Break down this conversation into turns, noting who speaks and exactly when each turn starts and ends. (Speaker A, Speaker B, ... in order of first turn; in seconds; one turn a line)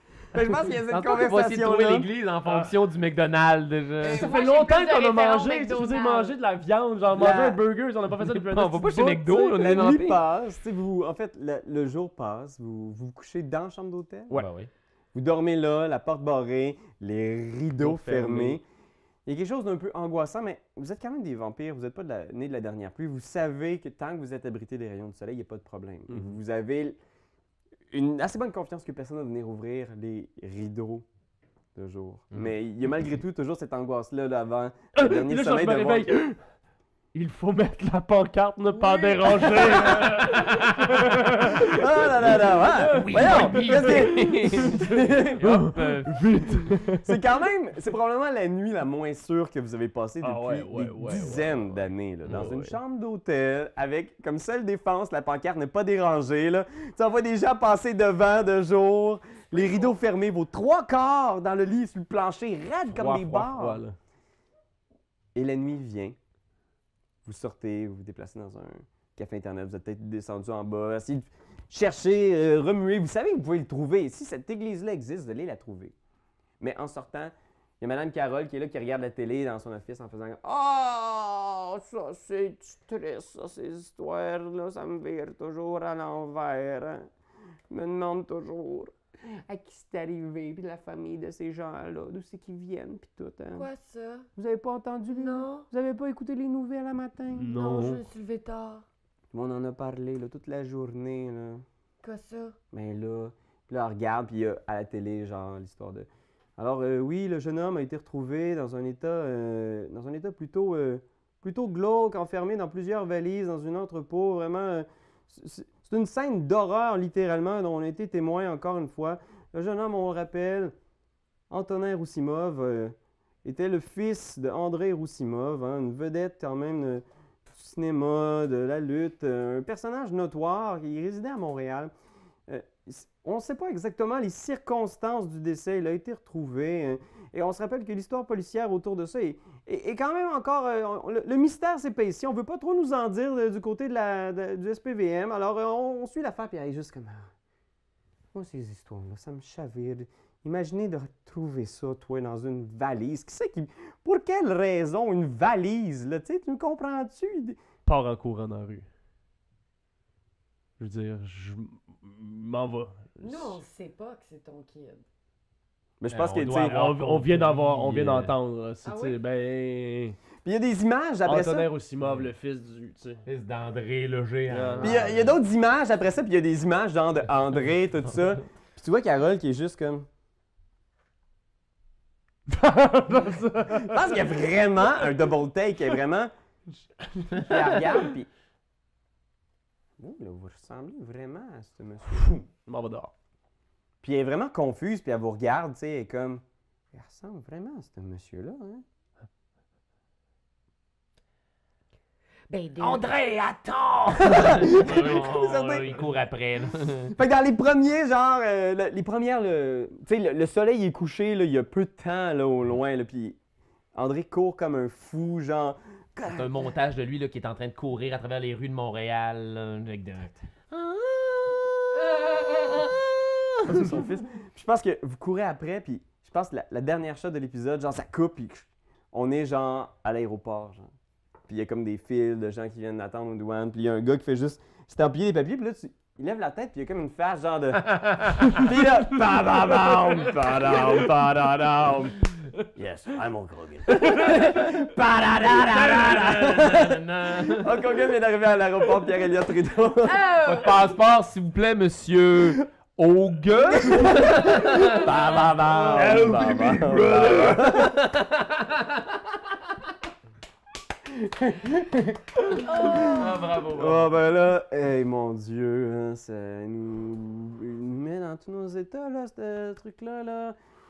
Speaker A: 0.3-2.1
Speaker B: 0.9-4.3
Speaker C: 2.5-2.7
Speaker D: 4.0-6.4
Speaker C: 4.0-9.6
Speaker A: 7.1-7.6
Speaker B: 8.2-10.2
Speaker A: 9.3-14.3
Speaker B: 14.3-14.7
Speaker A: 15.1-18.6
Speaker C: 17.8-18.6
Speaker A: 19.3-27.0
Speaker A: 27.9-31.1
Speaker A: 31.8-36.1
Speaker C: 35.0-36.4
Speaker C: 37.1-44.8
Speaker D: 38.8-39.4
Speaker A: 39.5-40.3
Speaker B: 39.6-40.6
Speaker A: 40.9-45.5
Speaker B: 42.8-46.4
Speaker C: 45.4-47.1
Speaker A: 47.0-63.8
Speaker C: 50.2-52.8
Speaker C: 62.9-64.0
Speaker A: 65.3-66.2
Speaker A: 67.2-75.9
Speaker A: 76.6-87.1
Speaker A: 87.7-93.7
Speaker D: 93.5-94.3
Speaker A: 94.4-97.5
Speaker D: 95.1-95.7
Speaker C: 97.3-98.0
Speaker D: 97.5-98.8
Speaker A: 99.3-101.6
Speaker D: 102.0-102.6
Speaker A: 102.7-120.7
Speaker A: 121.5-131.9
Speaker A: 132.5-147.3
Speaker A: 148.3-157.6
Speaker C: 157.8-158.9
Speaker C: 160.8-163.6
Speaker D: 163.2-165.0
Speaker A: 166.0-166.8
Speaker B: 166.1-168.3
Speaker C: 166.7-170.2
Speaker D: 168.8-169.2
Speaker A: 170.4-171.7
Speaker C: 171.2-173.2
Speaker B: 172.0-172.3
Speaker B: 173.2-175.4
Speaker C: 174.5-175.0
Speaker A: 174.8-180.1
Speaker C: 182.5-184.0
Speaker A: 183.7-186.3
Speaker C: 187.1-188.1
Speaker A: 187.4-188.3
Speaker A: 190.0-192.4
Speaker C: 192.6-193.1
Speaker A: 194.0-198.8
Speaker D: 202.5-203.1
Speaker B: 202.8-207.1
Speaker A: 204.2-206.0
Speaker A: 207.1-213.4
Speaker A: 213.9-216.7
Speaker B: 216.2-223.9
Speaker A: 223.6-230.9
Speaker A: 231.5-242.2
Speaker B: 238.0-238.5
Speaker A: 242.8-250.4
Speaker C: 244.0-244.4
Speaker B: 244.1-244.7
Speaker B: 245.4-247.8
Speaker D: 250.0-250.8
Speaker B: 250.4-259.2
Speaker A: 253.8-258.0
Speaker C: 255.9-256.8
Speaker A: 261.1-270.6
Speaker B: 262.5-264.1